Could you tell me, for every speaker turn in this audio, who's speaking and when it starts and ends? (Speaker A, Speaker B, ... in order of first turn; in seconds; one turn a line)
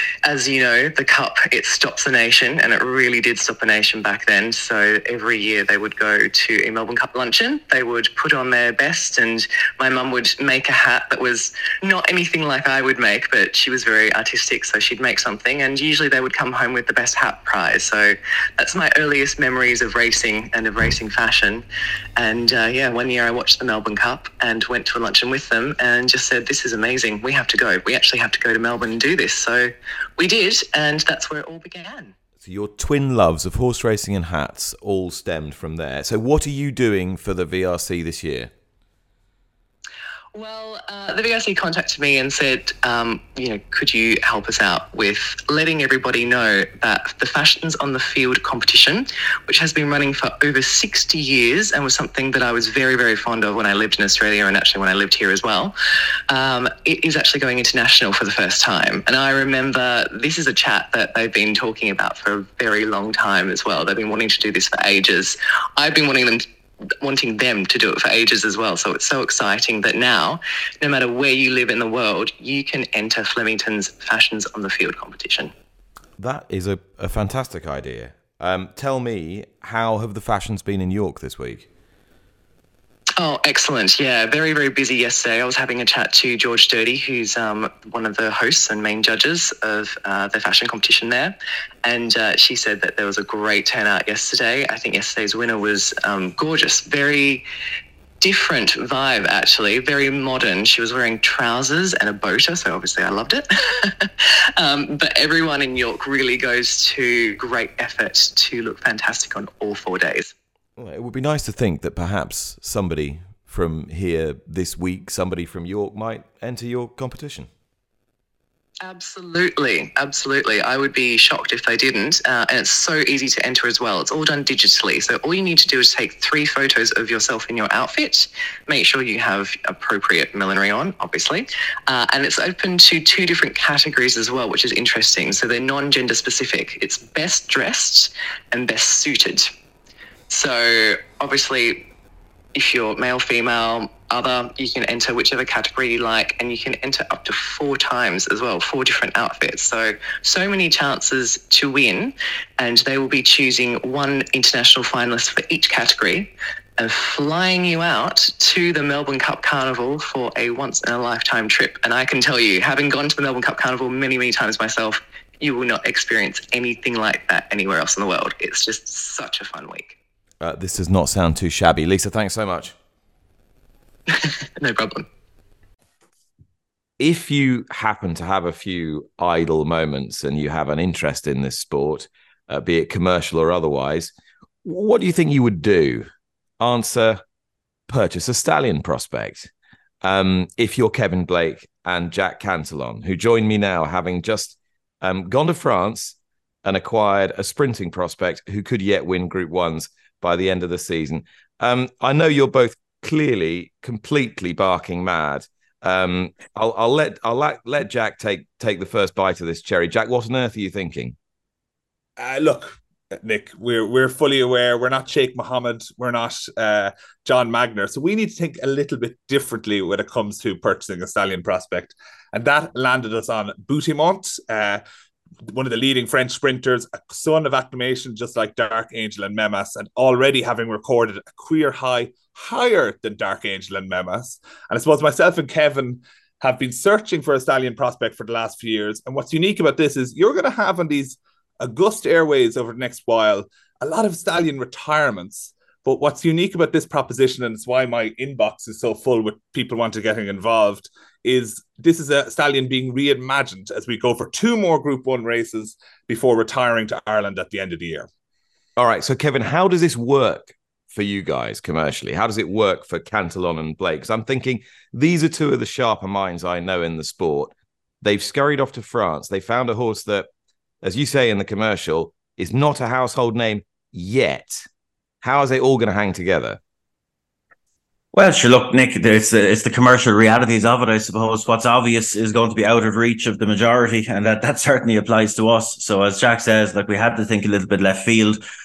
Speaker A: 0.2-21.6
Speaker A: 22.2-32.1
Speaker B: 32.4-38.5
Speaker A: 40.3-55.7
Speaker A: 56.3-66.5
Speaker A: 67.0-75.5
Speaker B: 76.2-81.7
Speaker A: 83.2-97.5
Speaker A: 98.2-110.3
Speaker B: 110.8-117.5
Speaker A: 118.8-139.5
Speaker A: 140.3-141.9
Speaker A: 142.5-170.0
Speaker B: 170.4-172.8
Speaker A: 174.1-175.1
Speaker B: 177.0-184.1
Speaker B: 184.6-186.1
Speaker B: 186.6-187.2
Speaker B: 187.9-189.5
Speaker B: 190.0-211.2
Speaker C: 212.2-224.8
Speaker C: 225.5-258.1
Speaker B: 258.8-270.3
Speaker B: 270.8-274.6
Speaker B: 275.2-276.6
Speaker D: 278.1-288.4